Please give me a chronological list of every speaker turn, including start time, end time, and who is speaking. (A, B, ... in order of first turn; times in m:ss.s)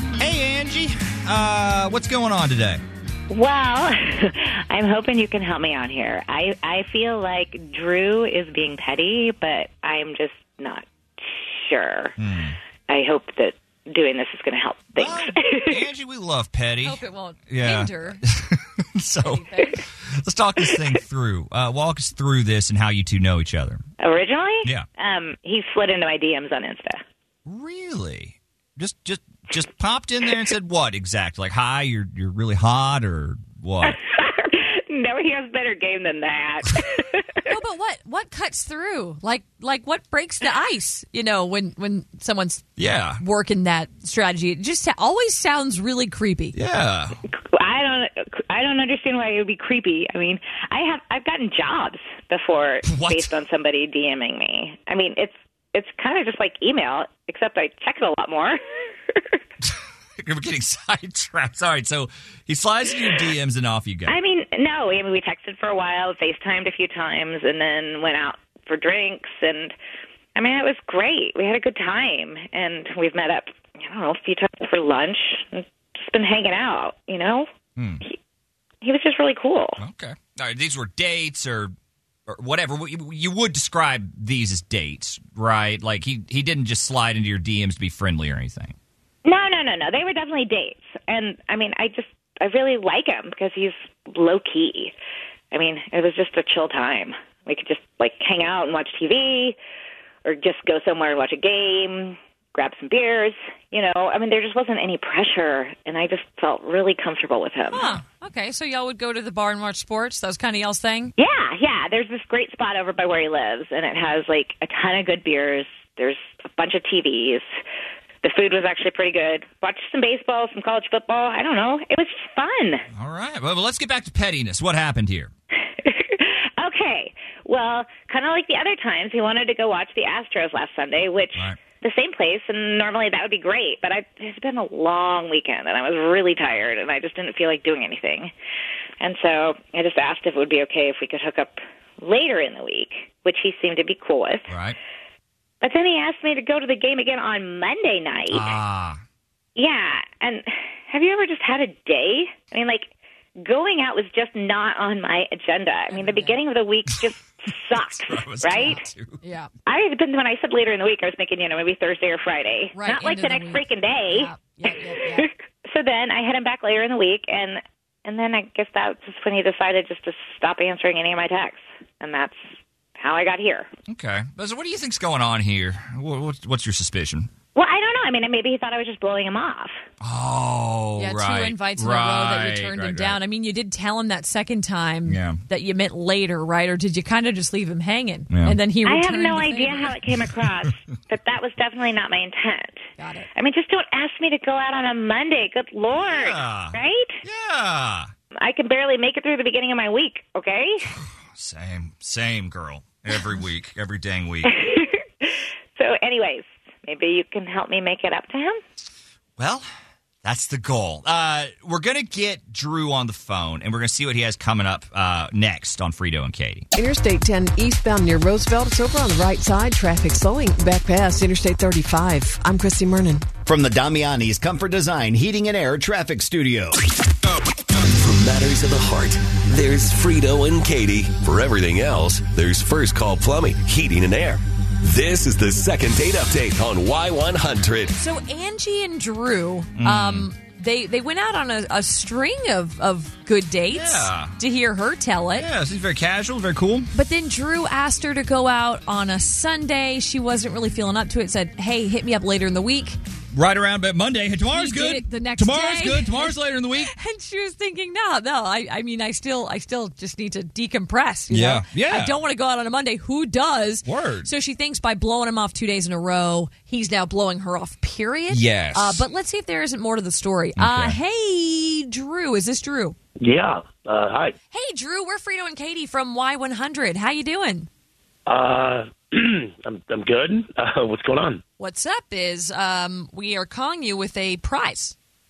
0:00.2-0:02.8 A
0:03.3-0:12.1 B
0:12.2-0:12.6 A
0:12.9-0:15.8 B
0:14.9-0:23.8 A
0:16.8-0:18.2 C
0:19.2-0:19.8 C
0:24.0-0:27.0 B
0:27.4-0:34.0 A
0:33.8-0:37.5 B
0:37.4-0:46.6 C
0:42.8-0:43.2 A
0:46.5-0:47.2 A
0:47.3-0:58.6 B
0:52.8-0:53.3 A
1:00.2-1:04.2 A
1:04.1-1:09.7 B
1:10.3-1:17.4 B
1:17.8-1:18.0 A
1:18.8-1:19.8 B
1:19.8-1:21.7 A
1:22.3-1:28.7 A
1:29.2-1:34.9 B
1:35.5-1:39.6 B
1:40.2-1:48.0 B
1:47.7-1:51.1 C
1:51.2-1:57.4 B
1:58.2-2:02.8 B
2:03.0-2:05.3 A
2:05.7-2:18.3 B
2:19.0-2:24.5 B
2:24.5-2:24.8 A
2:25.6-2:28.5 B
2:28.3-2:29.0 A
2:29.6-2:32.9 B
2:33.4-2:38.8 B
2:35.9-2:36.4 C
2:37.7-2:39.2 A
2:38.6-2:39.5 C
2:39.6-2:44.3 B
2:42.7-2:45.3 C
2:45.1-2:53.7 B
2:53.9-2:57.3 A
2:57.5-2:59.7 B
3:00.0-3:03.2 A
3:01.0-3:10.0 C
3:05.0-3:05.4 A
3:08.3-3:08.6 A
3:08.8-3:17.2 B
3:13.0-3:13.3 C
3:16.1-3:18.1 A
3:18.4-3:20.9 B
3:21.1-3:24.5 A
3:24.4-3:28.6 B
3:29.4-3:29.6 A
3:30.2-3:36.7 A
3:36.8-3:38.0 D
3:38.6-3:39.3 D
3:43.4-3:46.8 E
3:47.8-3:57.9 F
3:57.9-4:05.5 C
3:59.8-4:00.3 A
4:03.7-4:04.4 A
4:05.3-4:06.9 A
4:06.9-4:13.0 C
4:13.3-4:16.9 A
4:14.5-4:33.0 C
4:21.3-4:22.1 A
4:23.8-4:24.3 A
4:28.3-4:29.0 A
4:30.6-4:31.0 A
4:33.2-4:34.4 G
4:34.5-4:37.7 C
4:38.2-4:41.4 G
4:41.6-4:45.0 C